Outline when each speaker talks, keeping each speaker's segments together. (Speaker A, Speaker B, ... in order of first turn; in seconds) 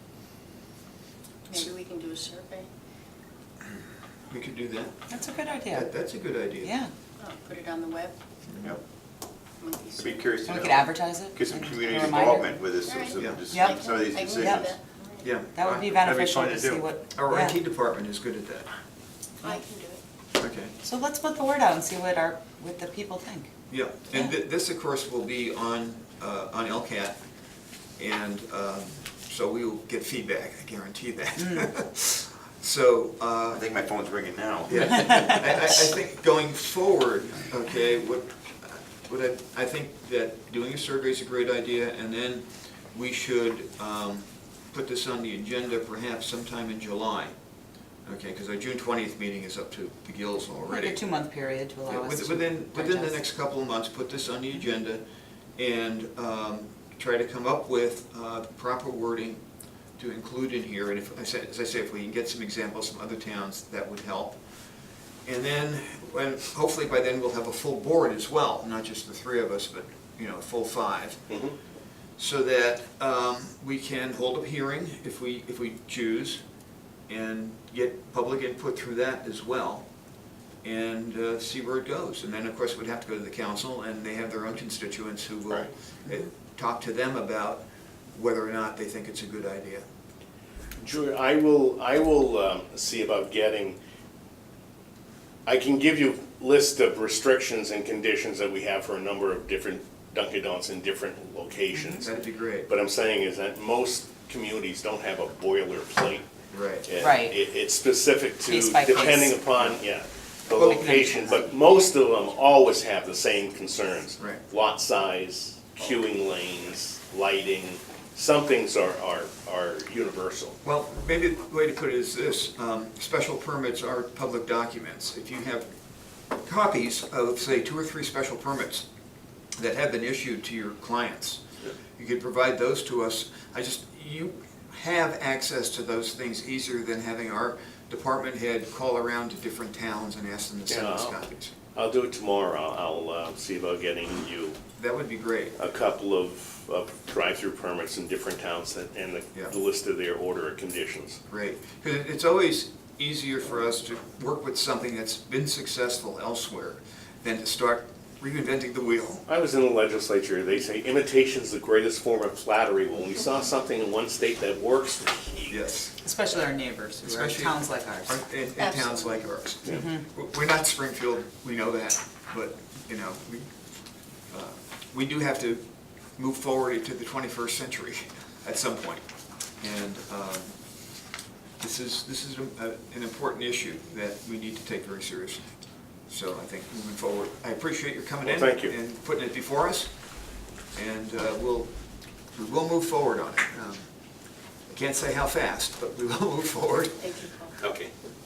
Speaker A: 1.5-2.7, 7.2-8.2, 9.6-10.3, 12.8-15.3, 19.4-20.0, 168.6-169.2, 197.0-197.6
Speaker B: 4.3-5.0, 5.7-6.8, 13.2-13.4, 15.2-15.6, 17.1-18.7, 20.4-20.7, 23.7-27.2, 28.0-33.6, 34.7-47.3, 48.0-51.0, 51.9-55.0, 55.6-59.4, 60.0-64.4, 65.2-71.2, 72.2-76.4, 77.1-79.9, 80.6-89.8, 102.0-102.7, 106.5-106.9, 110.5-111.4, 120.6-125.7, 126.4-128.8, 129.6-131.4, 132.0-141.5, 144.8-145.6, 151.3-159.2, 165.5-165.9, 167.0-173.5, 174.3-175.6, 176.2-179.0, 179.6-180.6, 181.6-185.4, 186.1-189.9, 190.7-191.7, 192.3-193.9, 194.7-197.0
Speaker C: 5.1-5.9, 6.6-6.9, 10.4-12.7, 13.4-14.7, 15.5-17.6, 20.8-23.5, 31.4-31.7, 50.7-53.2, 101.7-102.0, 107.0-107.4, 108.4-109.6, 110.6-111.5, 166.0-168.2, 169.7-170.0
Speaker D: 10.0-14.8, 15.6-16.9, 33.5-35.1
Speaker E: 71.3-71.5, 90.8-93.8, 95.5-102.1, 102.7-106.3, 106.9-120.6, 140.7-141.2, 141.8-144.6, 145.6-151.2, 159.3-165.5, 188.2-188.7, 197.6-197.9